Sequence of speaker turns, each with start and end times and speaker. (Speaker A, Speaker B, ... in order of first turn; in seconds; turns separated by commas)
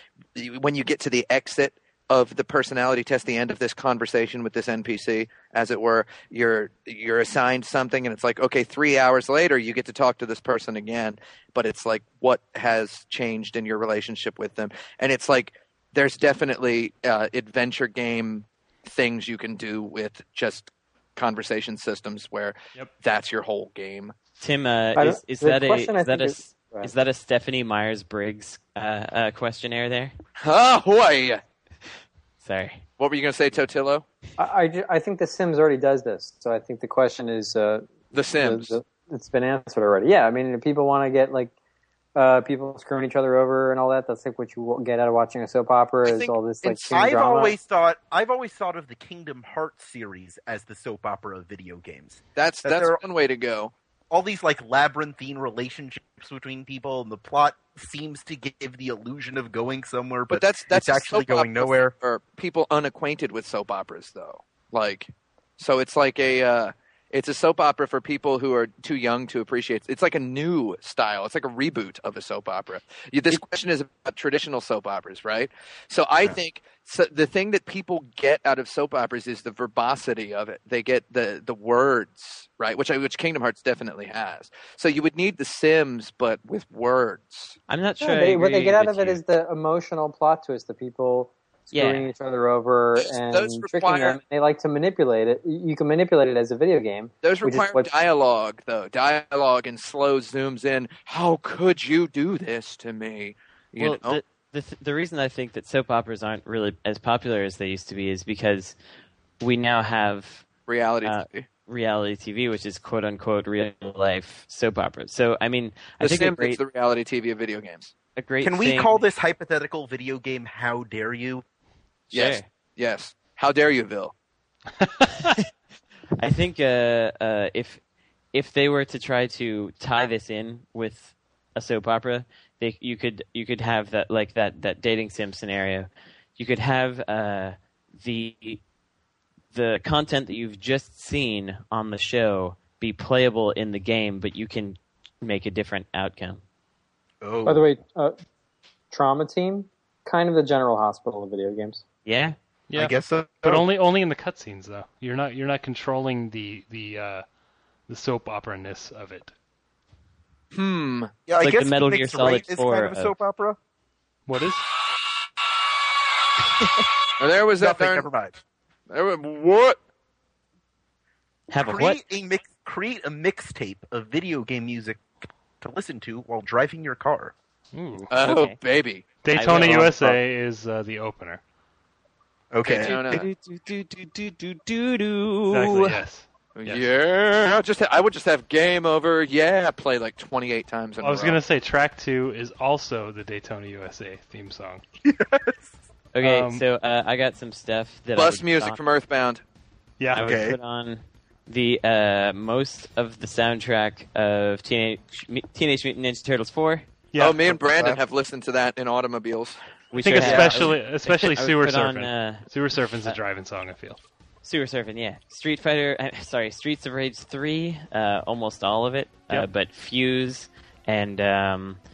Speaker A: 0.3-24.1, Speaker B: 24.4-30.1, Speaker C: 25.0-26.9, Speaker A: 30.4-31.4, Speaker B: 32.4-32.9, Speaker A: 33.0-34.0, Speaker C: 34.4-41.5, Speaker A: 38.1-38.8, Speaker C: 42.2-47.6, Speaker A: 46.0-46.9, Speaker D: 46.9-53.0, Speaker A: 52.4-53.7, Speaker D: 54.1-62.0, Speaker A: 60.3-87.6, Speaker B: 87.7-89.2, Speaker C: 88.0-97.9, Speaker B: 91.7-92.1, Speaker A: 93.2-94.2, Speaker A: 97.2-104.2, Speaker B: 103.8-108.8, Speaker B: 109.4-110.5, Speaker A: 110.7-111.5, Speaker B: 111.0-116.6, Speaker A: 116.0-117.9, Speaker B: 118.2-119.0, Speaker D: 118.4-121.5, Speaker B: 122.1-122.5, Speaker A: 122.1-124.1, Speaker E: 124.8-125.3, Speaker B: 126.2-127.8, Speaker B: 128.3-138.6, Speaker B: 139.5-146.4, Speaker D: 147.2-147.7, Speaker C: 147.5-148.2, Speaker C: 148.9-151.8, Speaker B: 152.1-152.4, Speaker E: 152.7-157.2, Speaker D: 152.8-153.7, Speaker E: 157.9-159.3, Speaker A: 160.5-161.1, Speaker D: 161.3-163.6, Speaker B: 161.4-163.2, Speaker E: 164.3-164.7, Speaker A: 167.2-168.1, Speaker D: 167.6-168.4, Speaker A: 168.9-169.8, Speaker B: 171.5-172.0, Speaker D: 171.6-177.3, Speaker E: 177.7-178.1, Speaker B: 178.0-178.6, Speaker A: 178.1-179.1, Speaker E: 179.2-181.4, Speaker B: 179.3-180.2, Speaker D: 182.5-183.0, Speaker A: 182.6-183.3, Speaker B: 182.8-186.0, Speaker E: 185.5-186.8, Speaker A: 186.6-191.4, Speaker E: 191.0-194.8, Speaker D: 195.0-195.8, Speaker B: 196.2-198.8, Speaker E: 196.2-196.6, Speaker A: 198.2-199.4, Speaker E: 200.0-200.4, Speaker B: 200.1-206.9, Speaker D: 200.2-200.6, Speaker E: 207.1-207.4, Speaker A: 207.2-209.6, Speaker D: 207.5-208.0, Speaker B: 209.9-212.5, Speaker E: 210.0-214.0, Speaker D: 210.2-210.7, Speaker B: 214.4-221.8